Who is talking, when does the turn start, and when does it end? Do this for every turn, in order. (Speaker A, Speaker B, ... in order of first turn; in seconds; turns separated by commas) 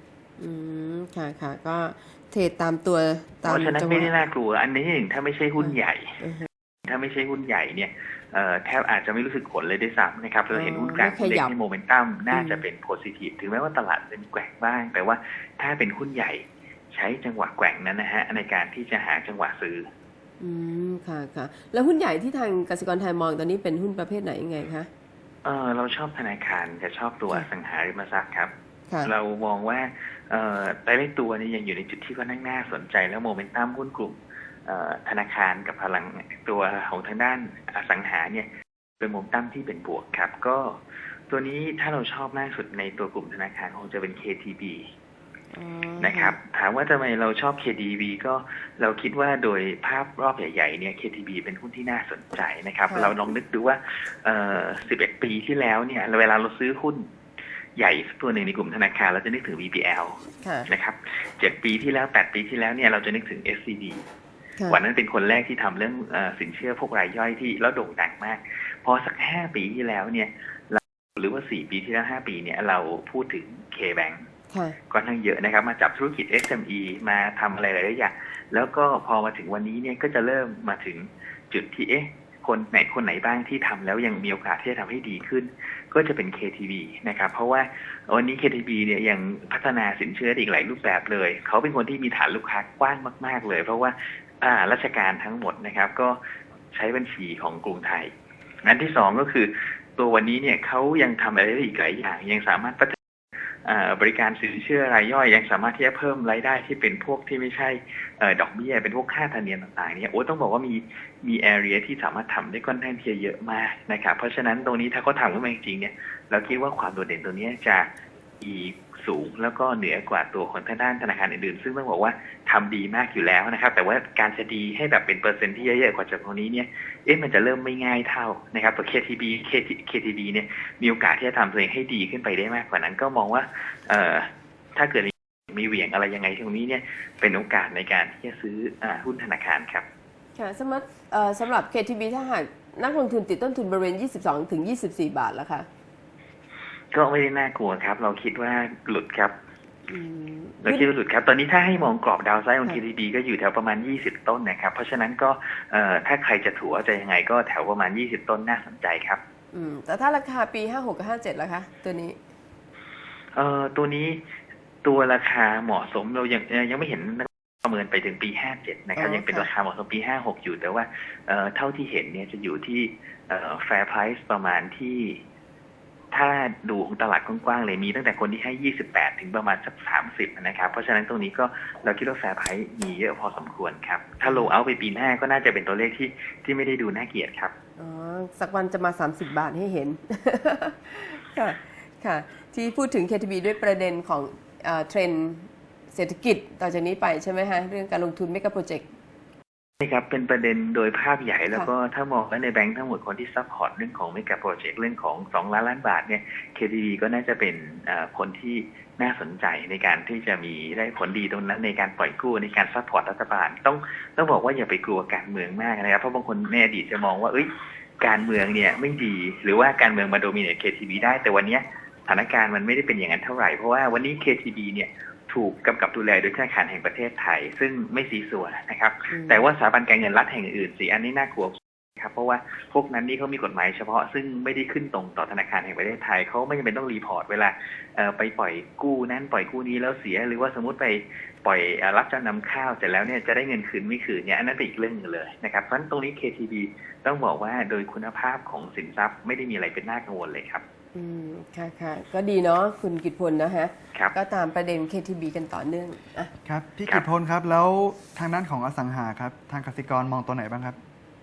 Speaker A: 0.4-4.1, Speaker B: 3.5-6.2, Speaker A: 5.6-6.5, Speaker B: 6.8-19.9, Speaker A: 10.5-11.5, Speaker A: 12.3-12.6, Speaker A: 20.4-24.9, Speaker B: 25.4-28.5, Speaker B: 29.0-38.5, Speaker B: 39.0-40.8, Speaker B: 41.3-44.9, Speaker A: 45.5-46.4, Speaker B: 46.0-57.1, Speaker A: 52.9-53.2, Speaker B: 57.8-64.1, Speaker A: 60.4-60.7, Speaker B: 64.7-74.2, Speaker A: 74.5-74.8, Speaker B: 74.9-96.2, Speaker B: 96.7-98.1, Speaker B: 98.6-103.0, Speaker B: 103.6-117.9, Speaker B: 118.4-139.8, Speaker A: 140.4-145.7, Speaker B: 146.9-149.3, Speaker A: 149.9-150.9, Speaker B: 150.6-159.2, Speaker A: 159.5-162.2, Speaker B: 163.3-164.2, Speaker B: 164.8-175.2, Speaker A: 169.0-169.5, Speaker B: 176.1-187.5, Speaker A: 187.8-198.8, Speaker B: 199.8-217.5, Speaker B: 218.0-250.6, Speaker A: 229.1-229.4, Speaker A: 250.9-256.3, Speaker C: 256.4-260.8